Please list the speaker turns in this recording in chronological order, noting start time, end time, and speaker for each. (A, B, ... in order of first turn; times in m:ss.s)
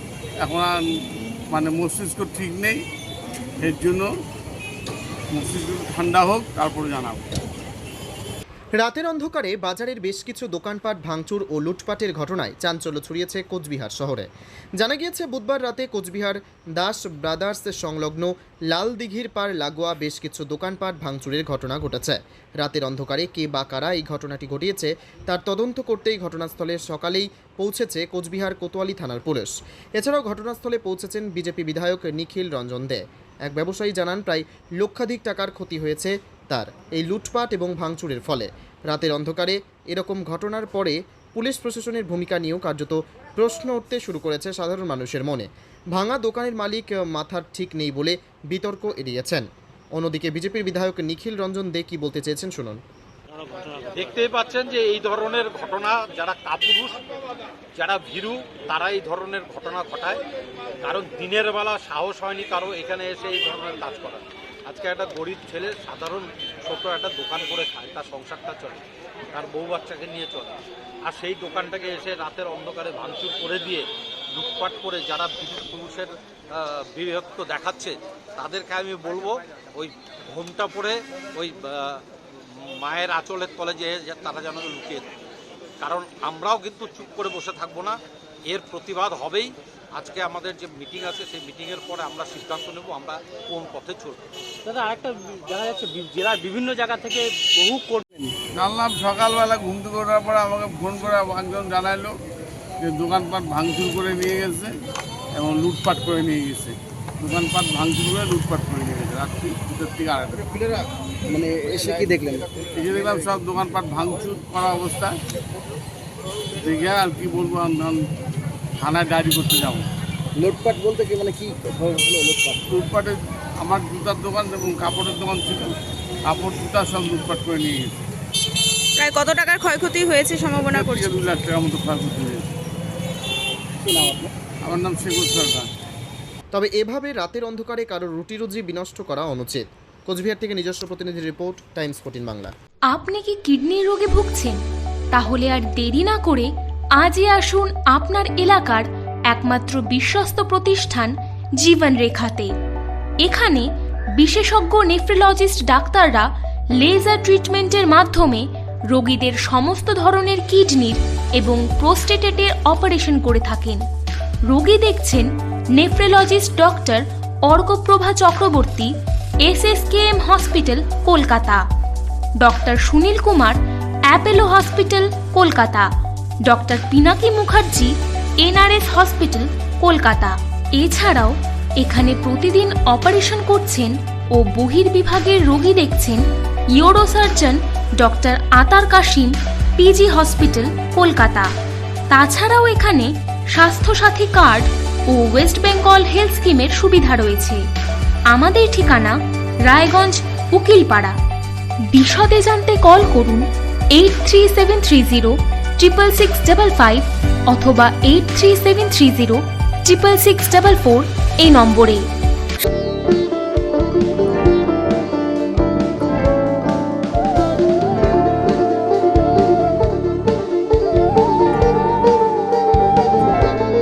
0:00.4-0:00.8 A
0:01.5-0:02.8 A
0:03.6-0:04.1 A
0:05.3-0:07.3 A
0:08.8-0:52.8 B
0:53.3-0:54.2 C
0:53.9-0:57.0 D
0:57.8-1:00.2 D
1:00.8-1:10.5 D
1:11.0-1:22.0 D
1:22.6-1:25.1 D
1:25.8-1:34.2 D
1:34.6-1:38.3 C
1:38.5-1:42.1 A
1:42.8-1:44.7 A
1:45.3-1:50.5 A
1:50.6-1:52.4 E
1:52.7-1:55.2 A
1:56.6-1:58.0 A
1:58.8-1:59.9 A
2:00.4-2:02.6 E
2:02.7-2:05.7 A
2:06.3-2:08.0 A
2:09.0-2:11.0 F
2:10.5-2:12.4 A
2:13.8-2:14.3 E
2:14.6-2:15.7 A
2:16.5-2:22.5 B
2:22.9-2:24.6 G
2:25.1-2:32.5 G
2:33.2-2:36.3 G
2:36.8-2:43.8 G
2:44.5-2:48.9 G
2:49.4-2:51.6 G
2:52.4-2:55.9 G
2:56.4-3:06.2 G
3:06.8-3:11.5 G
3:12.1-3:17.6 G
3:18.3-3:21.2 G
3:21.9-3:32.1 G